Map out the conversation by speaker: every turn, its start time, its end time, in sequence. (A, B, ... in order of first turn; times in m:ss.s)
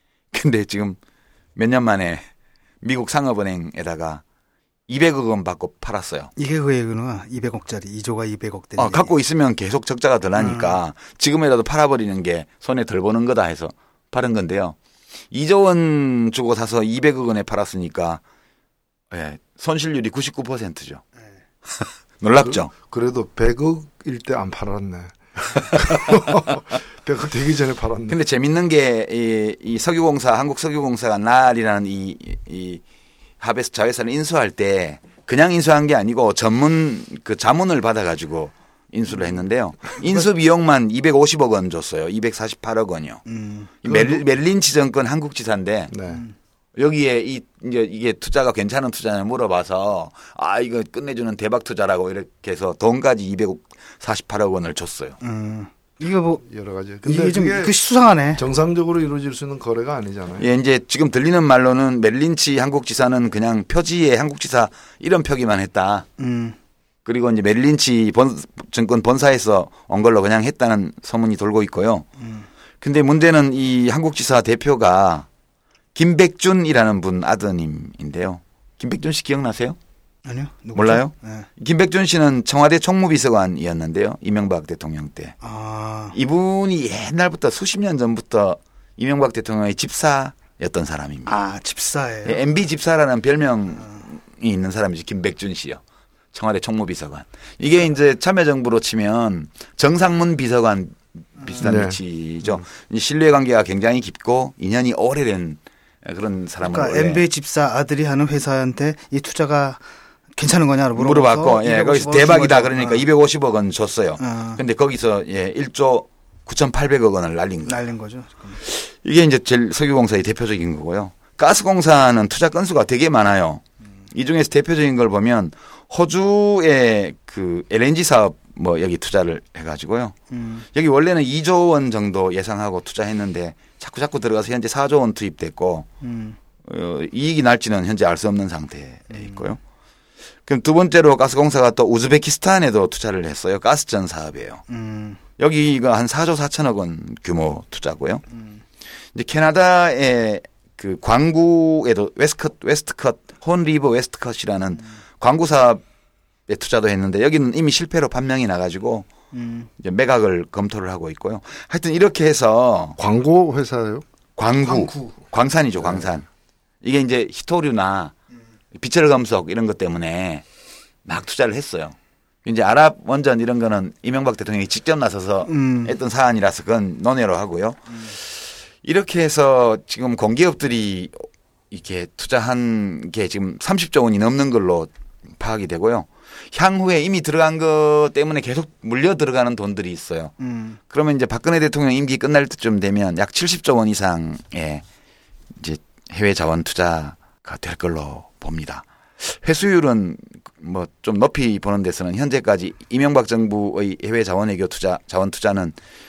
0:00.3-0:01.0 A
0:01.6-0:02.3 A
0:02.8-0:04.2 A
0:04.9-0:06.3 A
0:06.4-0:09.1 B
0:08.8-0:14.8 A
0:10.4-0:10.8 B
0:15.3-0:18.2 A
0:19.1-0:21.0 A
0:21.7-0:22.7 A
0:22.4-0:28.2 C
0:25.6-0:26.2 A
0:28.1-0:32.8 A
0:33.4-0:43.2 A
0:43.3-0:43.7 B
0:43.8-0:45.9 A
0:43.8-0:44.2 C
0:45.9-0:46.2 C
0:46.1-0:46.3 B
0:46.8-0:55.2 A
0:55.2-0:56.4 B
0:56.4-0:57.7 C
0:57.0-0:58.4 B
0:58.4-1:00.4 C
1:00.4-1:06.0 A
1:06.2-1:06.6 B
1:07.0-1:12.0 A
1:12.2-1:12.5 B
1:12.8-1:15.3 A
1:15.9-1:19.8 A
1:20.2-1:21.5 B
1:20.7-1:25.4 A
1:25.4-1:26.2 B
1:26.1-1:31.3 A
1:31.2-1:32.4 B
1:32.2-1:35.8 A
1:36.3-1:47.2 A
1:41.4-1:41.7 B
1:41.6-1:42.0 C
1:46.6-1:49.8 B
1:50.4-1:53.0 B
1:51.0-1:57.8 A
1:54.2-1:54.6 B
1:57.6-1:58.6 B
1:58.6-2:10.2 A
2:10.3-2:10.6 B
2:10.7-2:15.9 A
2:16.0-2:16.4 B
2:16.6-2:19.6 A
2:19.1-2:19.4 B
2:20.4-2:24.6 A
2:24.7-2:25.2 B
2:25.4-2:28.2 A
2:29.1-2:35.8 A
2:36.5-2:39.1 A
2:39.3-2:39.7 B
2:39.8-2:43.0 A
2:43.0-2:44.0 C
2:44.4-2:46.2 A
2:44.6-2:45.2 B
2:46.8-2:48.1 A
2:48.7-2:50.4 A
2:51.0-2:58.3 A
2:55.4-2:55.9 B
2:58.8-3:10.3 A
3:10.4-3:10.8 B
3:10.9-3:14.8 A
3:15.6-3:25.8 A